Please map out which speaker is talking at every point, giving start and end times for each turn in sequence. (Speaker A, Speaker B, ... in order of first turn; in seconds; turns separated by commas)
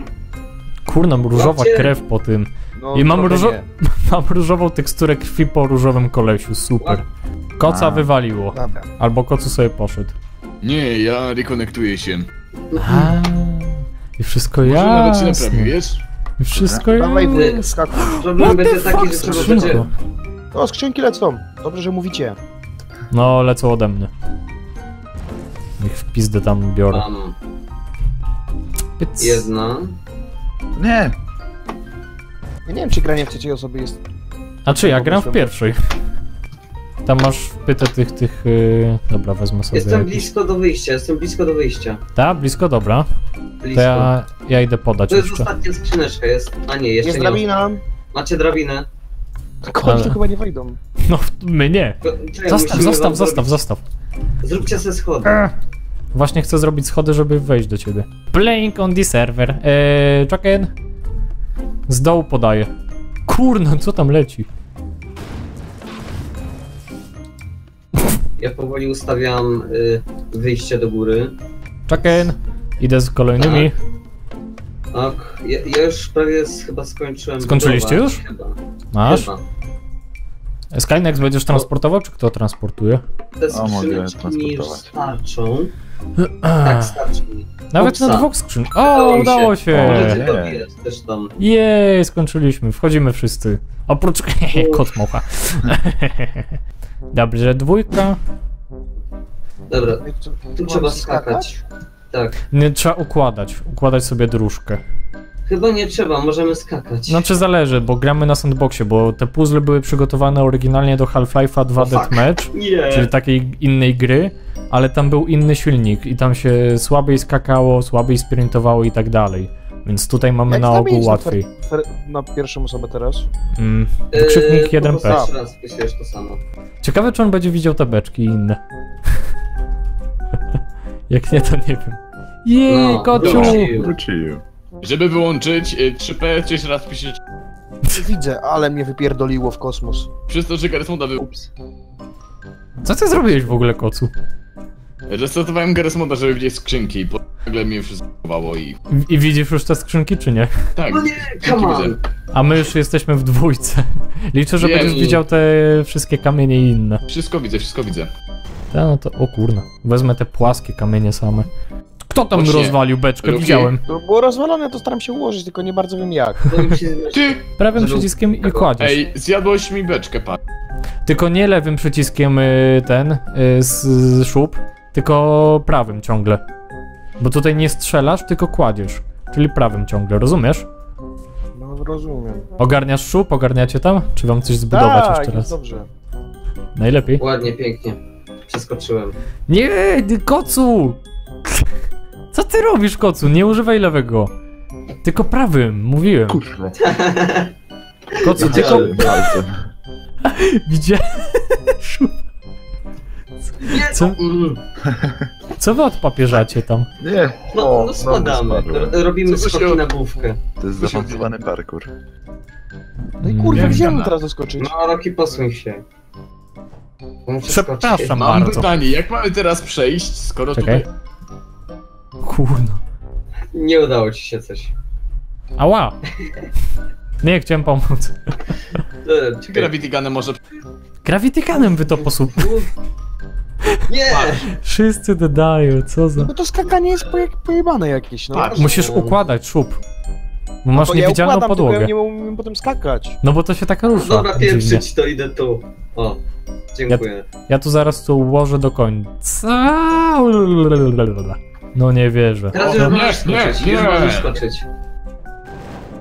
Speaker A: 0.8-7.0, Speaker B: 1.3-1.9, Speaker C: 2.8-3.6, Speaker A: 7.6-10.1, Speaker D: 7.6-8.1, Speaker C: 8.5-8.9, Speaker E: 10.6-12.3, Speaker B: 12.7-13.1, Speaker A: 12.8-15.7, Speaker E: 14.6-16.0, Speaker A: 16.4-19.9, Speaker D: 16.6-16.9, Speaker C: 16.9-18.1, Speaker B: 17.3-19.9, Speaker D: 19.2-19.9, Speaker C: 20.5-22.4, Speaker A: 23.1-24.1, Speaker A: 25.8-27.1, Speaker B: 26.9-27.3, Speaker A: 29.0-29.5, Speaker B: 29.2-30.0, Speaker D: 30.7-31.1, Speaker C: 32.6-34.0, Speaker A: 34.6-35.8, Speaker C: 34.7-35.5, Speaker A: 37.0-40.3, Speaker B: 39.7-42.0, Speaker A: 42.1-43.1, Speaker B: 43.6-44.1, Speaker A: 43.7-45.5, Speaker B: 45.1-47.5, Speaker C: 47.0-47.8, Speaker B: 48.1-48.9, Speaker C: 49.6-50.8, Speaker A: 49.8-50.2, Speaker A: 51.0-53.8, Speaker B: 52.0-53.6, Speaker B: 54.4-55.4, Speaker A: 55.2-55.5, Speaker A: 56.1-60.7, Speaker A: 61.9-62.7, Speaker A: 63.3-64.5, Speaker B: 68.4-71.3, Speaker A: 71.9-73.8, Speaker B: 73.4-73.7, Speaker B: 74.9-79.4, Speaker A: 77.4-78.2, Speaker A: 78.9-79.3, Speaker A: 80.7-83.0, Speaker B: 83.4-85.7, Speaker D: 83.5-84.9, Speaker A: 86.2-87.0, Speaker B: 86.6-88.3, Speaker A: 87.7-90.2, Speaker B: 88.8-91.3, Speaker D: 89.7-90.6, Speaker A: 91.4-96.6, Speaker B: 94.5-94.8, Speaker A: 97.1-98.2, Speaker B: 99.7-100.0, Speaker C: 100.0-101.6, Speaker B: 100.5-101.6, Speaker B: 102.1-102.4, Speaker A: 102.5-104.8, Speaker B: 105.5-107.2, Speaker A: 107.1-121.5, Speaker B: 111.8-113.1, Speaker C: 120.5-123.3, Speaker A: 123.5-125.2, Speaker B: 124.1-126.4, Speaker C: 125.0-125.3, Speaker A: 126.8-128.6, Speaker A: 131.1-133.7, Speaker B: 132.7-133.9, Speaker E: 133.2-133.6, Speaker D: 133.3-134.4, Speaker E: 134.8-137.2, Speaker C: 137.9-140.1, Speaker E: 140.3-141.2, Speaker D: 141.2-141.4, Speaker A: 142.8-144.1, Speaker E: 145.1-148.8, Speaker A: 148.9-150.5, Speaker E: 150.8-151.9, Speaker B: 150.9-152.0, Speaker A: 152.3-157.0, Speaker E: 154.6-155.2, Speaker E: 157.1-158.1, Speaker A: 158.7-161.5, Speaker A: 162.1-163.8, Speaker E: 162.3-163.7, Speaker C: 163.8-166.4, Speaker B: 166.5-168.7, Speaker E: 167.1-167.4, Speaker A: 167.6-169.0, Speaker E: 168.8-170.4, Speaker A: 171.0-176.4, Speaker A: 177.2-180.7, Speaker C: 181.5-182.5, Speaker A: 182.6-185.5, Speaker C: 184.7-185.9, Speaker A: 186.8-187.2, Speaker B: 187.2-189.2, Speaker A: 189.5-191.7, Speaker A: 192.3-194.3, Speaker A: 195.0-196.4, Speaker D: 196.3-196.8, Speaker B: 196.8-197.5, Speaker A: 198.1-199.0, Speaker B: 198.1-199.3, Speaker D: 198.4-199.7, Speaker A: 200.2-202.2, Speaker B: 203.6-204.6, Speaker A: 203.6-204.2, Speaker D: 204.8-205.3, Speaker A: 205.6-206.9, Speaker D: 207.0-209.0, Speaker B: 207.5-210.4, Speaker E: 209.2-209.8, Speaker D: 210.6-211.9, Speaker E: 210.8-211.2, Speaker A: 213.2-213.9, Speaker C: 213.2-214.7, Speaker E: 213.5-214.1, Speaker B: 214.6-215.8, Speaker B: 217.3-218.2, Speaker A: 217.5-218.7, Speaker E: 218.1-220.8, Speaker A: 220.5-220.8, Speaker A: 222.2-222.8, Speaker B: 223.5-224.7, Speaker A: 225.6-225.9, Speaker A: 227.2-228.3, Speaker B: 229.0-229.7, Speaker E: 229.5-230.4, Speaker A: 231.0-232.5, Speaker B: 232.3-232.7, Speaker B: 233.9-234.5, Speaker E: 234.1-234.4, Speaker A: 234.5-236.3, Speaker C: 236.2-238.7, Speaker B: 238.3-239.2, Speaker E: 238.3-238.6, Speaker A: 238.5-239.8, Speaker A: 240.6-241.9, Speaker C: 240.7-243.2, Speaker A: 243.2-244.8, Speaker B: 243.9-246.2, Speaker B: 246.7-247.2, Speaker A: 246.9-252.6, Speaker B: 252.5-254.7, Speaker E: 252.5-254.3